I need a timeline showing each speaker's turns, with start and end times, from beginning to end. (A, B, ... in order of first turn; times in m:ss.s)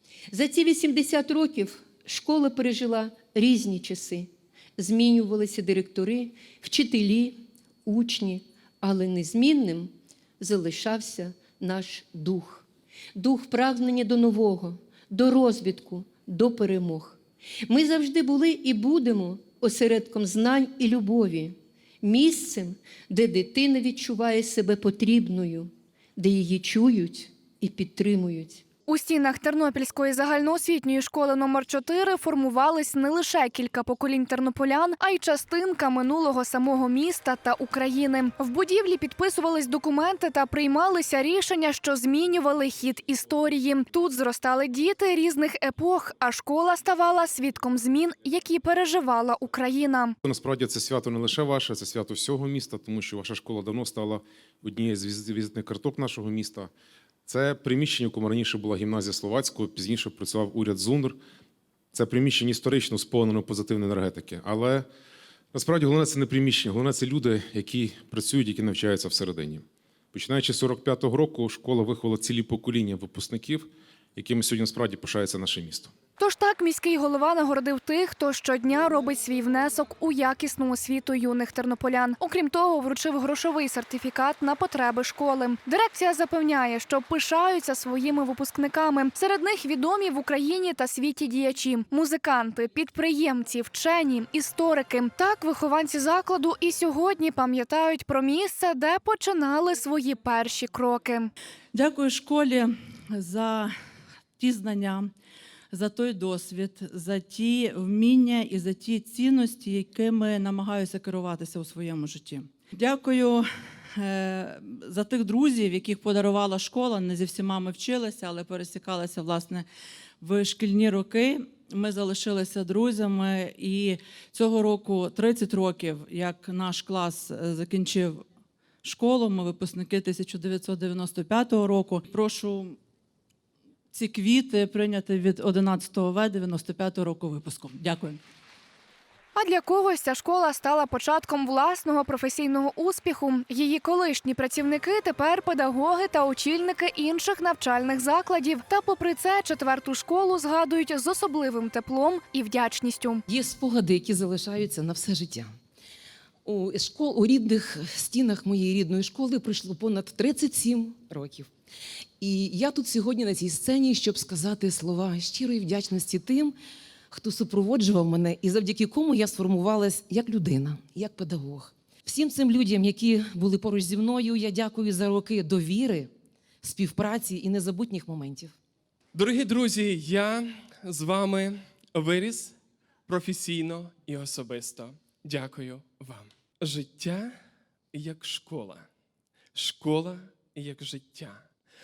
0:00.3-0:28.6 A
0:28.9-0:50.2 B
0:50.2-0:56.7 C
0:57.3-1:01.2 C
1:01.9-1:04.9 C
1:05.5-1:15.9 C
1:16.2-1:41.3 B
1:41.7-1:43.7 D
1:44.4-1:45.1 D
1:45.7-1:59.7 D
2:00.2-2:08.2 D
2:08.8-2:12.8 D
2:13.9-2:18.2 D
2:19.3-2:33.2 B
2:33.3-2:35.6 E
2:36.4-2:41.5 E
2:42.2-2:46.6 E
2:47.1-2:56.1 E
2:56.6-2:58.5 E
2:59.1-3:02.6 F
3:03.1-3:07.4 F
3:07.9-3:08.9 F
3:09.5-3:11.5 F